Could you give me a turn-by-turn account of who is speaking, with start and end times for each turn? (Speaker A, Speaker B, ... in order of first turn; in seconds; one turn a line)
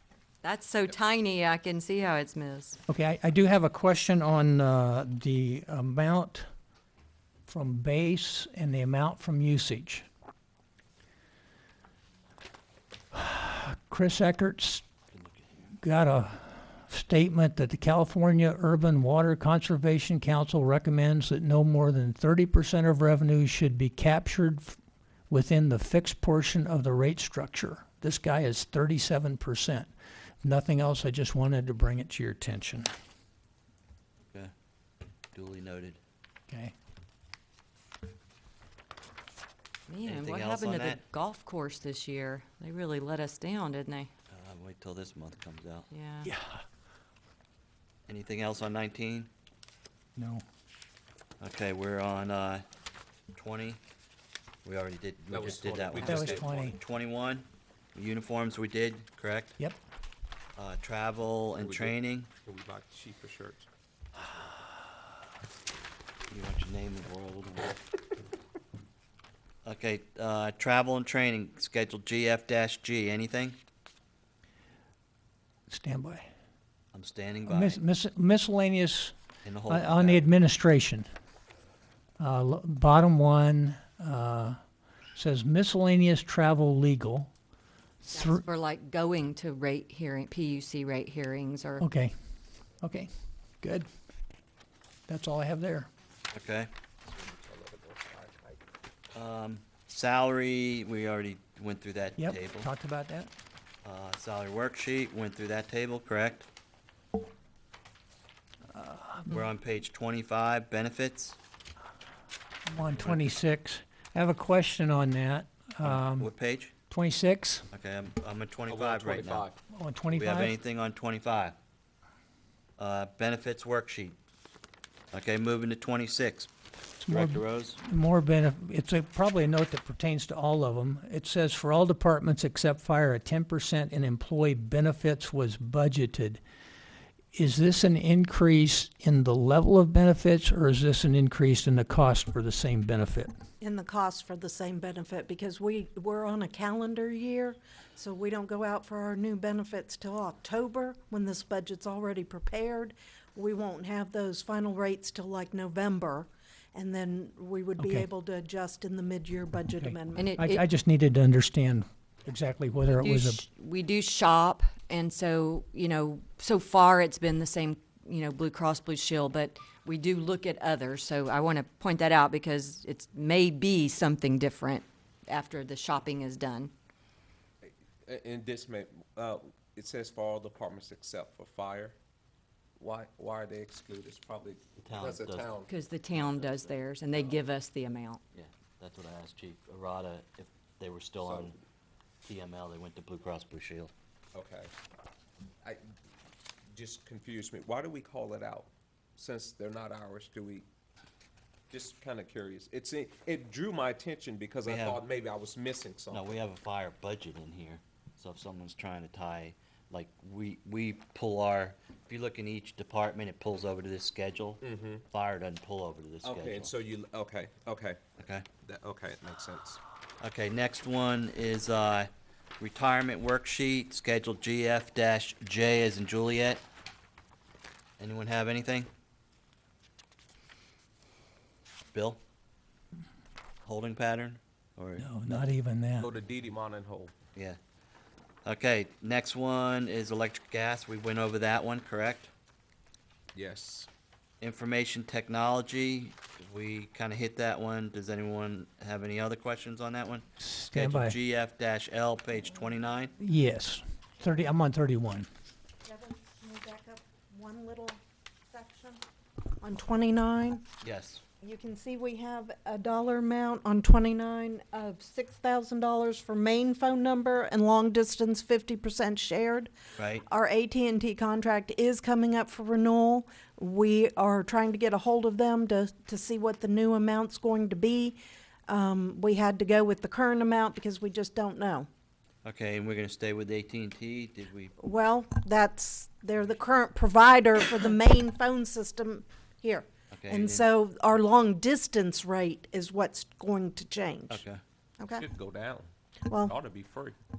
Speaker A: 0.4-2.8
Speaker B: 2.9-6.5
Speaker B: 7.5-10.1
Speaker B: 13.1-14.8
Speaker C: 15.1-15.7
Speaker B: 15.8-24.8
Speaker B: 25.3-29.9
Speaker B: 30.4-32.9
Speaker C: 35.3-36.0
Speaker A: 39.9-44.1
Speaker C: 40.0-41.0
Speaker C: 44.3-45.9
Speaker A: 45.9-46.3
Speaker B: 46.2-46.6
Speaker C: 48.1-49.3
Speaker B: 50.2-50.4
Speaker C: 51.4-52.6
Speaker C: 53.3-53.8
Speaker C: 54.6-59.6
Speaker D: 55.3-56.6
Speaker B: 56.0-56.8
Speaker C: 60.6-62.3
Speaker D: 61.6-63.7
Speaker C: 66.3-67.8
Speaker C: 69.7-73.6
Speaker B: 75.7-76.3
Speaker C: 76.9-77.8
Speaker B: 77.5-79.2
Speaker C: 79.4-80.3
Speaker B: 79.7-81.1
Speaker B: 82.2-84.6
Speaker B: 85.2-87.3
Speaker B: 88.0-88.4
Speaker A: 88.1-91.8
Speaker B: 91.8-92.1
Speaker B: 92.8-93.9
Speaker B: 95.1-95.9
Speaker C: 96.3-96.7
Speaker D: 97.0-98.6
Speaker C: 99.1-102.7
Speaker B: 102.2-103.3
Speaker C: 103.8-106.5
Speaker B: 108.7-109.4
Speaker C: 109.3-111.4
Speaker B: 112.7-116.3
Speaker C: 112.9-113.3
Speaker C: 115.8-116.7
Speaker B: 116.9-117.7
Speaker C: 117.7-119.5
Speaker D: 118.7-119.6
Speaker B: 119.7-120.5
Speaker C: 120.1-121.5
Speaker C: 122.8-124.2
Speaker C: 125.1-126.5
Speaker B: 127.0-136.4
Speaker C: 127.1-127.8
Speaker B: 137.3-143.3
Speaker E: 143.6-160.3
Speaker B: 157.8-158.1
Speaker B: 159.8-163.4
Speaker A: 160.2-160.6
Speaker A: 162.9-176.7
Speaker D: 177.6-182.0
Speaker D: 182.8-185.7
Speaker C: 184.8-185.5
Speaker A: 185.7-188.2
Speaker C: 186.1-186.7
Speaker C: 188.3-191.6
Speaker D: 191.2-191.6
Speaker C: 192.3-193.9
Speaker D: 194.3-194.7
Speaker D: 196.7-200.7
Speaker D: 201.7-206.4
Speaker C: 204.7-205.0
Speaker C: 206.1-216.7
Speaker D: 214.6-215.0
Speaker D: 216.2-218.0
Speaker C: 218.2-218.5
Speaker D: 218.6-219.8
Speaker C: 220.2-226.6
Speaker C: 228.0-228.9
Speaker C: 231.9-232.2
Speaker C: 233.6-235.4
Speaker B: 235.0-236.1
Speaker D: 236.0-237.1
Speaker C: 238.4-242.3
Speaker D: 243.3-243.9
Speaker C: 244.4-253.2
Speaker B: 250.4-251.2
Speaker B: 253.2-255.3
Speaker E: 255.8-259.0
Speaker E: 259.6-260.6
Speaker C: 260.8-261.2
Speaker E: 261.4-269.7
Speaker C: 270.0-270.2
Speaker E: 270.3-281.9
Speaker C: 282.4-284.8
Speaker E: 284.8-294.4
Speaker C: 290.1-290.7
Speaker C: 294.3-294.6
Speaker E: 295.0-295.3
Speaker D: 295.1-297.2
Speaker E: 296.3-296.5